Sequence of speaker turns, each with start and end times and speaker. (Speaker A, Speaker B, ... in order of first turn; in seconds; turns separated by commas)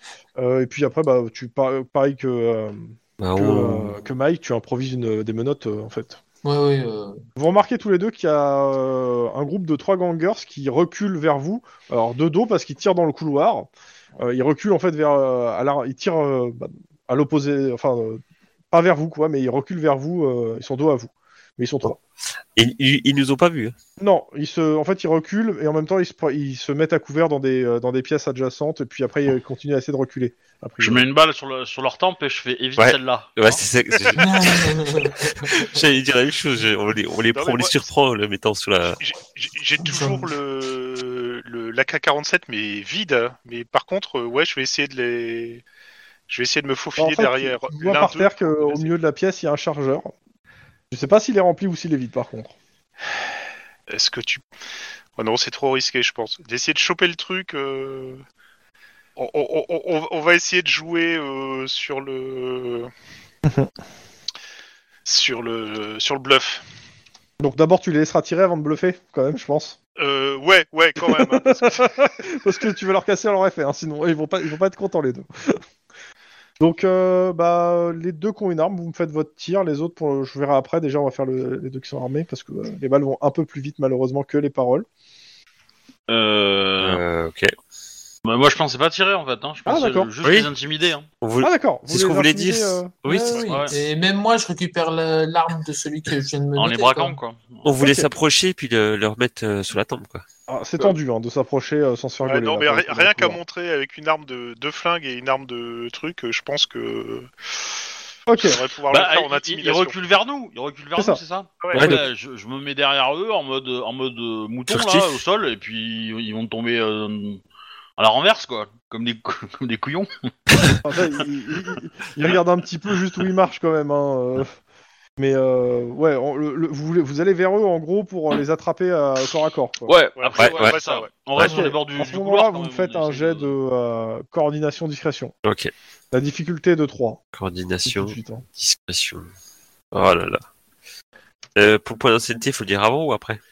Speaker A: 0.4-6.2, Speaker B: 3.2-3.9, Speaker C: 6.4-7.2, Speaker A: 7.4-22.0, Speaker B: 22.6-23.7, Speaker A: 24.0-31.0, Speaker D: 30.8-33.6, Speaker B: 32.8-39.0, Speaker C: 34.2-35.7, Speaker E: 37.3-37.8, Speaker E: 39.0-45.6, Speaker C: 39.8-40.3, Speaker E: 46.3-48.9, Speaker A: 47.0-50.1, Speaker A: 50.9-52.5, Speaker E: 53.9-54.4, Speaker E: 55.2-58.2, Speaker E: 59.2-62.9, Speaker A: 63.4-63.7, Speaker E: 65.0-66.6, Speaker A: 67.4-69.8, Speaker E: 70.0-71.9, Speaker A: 71.0-75.6, Speaker A: 76.6-84.9, Speaker D: 86.1-87.0, Speaker B: 86.8-87.5, Speaker D: 88.2-91.1, Speaker A: 89.7-90.1, Speaker B: 90.2-90.5, Speaker B: 91.2-93.4, Speaker A: 91.4-93.5, Speaker C: 93.3-97.2, Speaker D: 93.4-93.8, Speaker D: 96.5-97.7, Speaker B: 97.6-100.2, Speaker A: 97.8-98.1, Speaker A: 100.5-103.4, Speaker E: 102.2-107.3, Speaker A: 108.3-108.6, Speaker E: 108.4-109.9, Speaker D: 108.9-117.4, Speaker A: 111.0-112.0, Speaker B: 111.7-112.0, Speaker B: 114.7-115.2, Speaker D: 118.0-120.3, Speaker A: 120.8-124.5, Speaker A: 125.2-129.9, Speaker D: 129.9-133.5, Speaker E: 130.2-131.1, Speaker B: 130.4-130.8, Speaker A: 131.4-135.3, Speaker B: 135.4-135.7, Speaker A: 136.1-137.2, Speaker B: 137.3-139.3, Speaker A: 137.9-138.4, Speaker B: 139.9-140.4, Speaker B: 141.6-143.4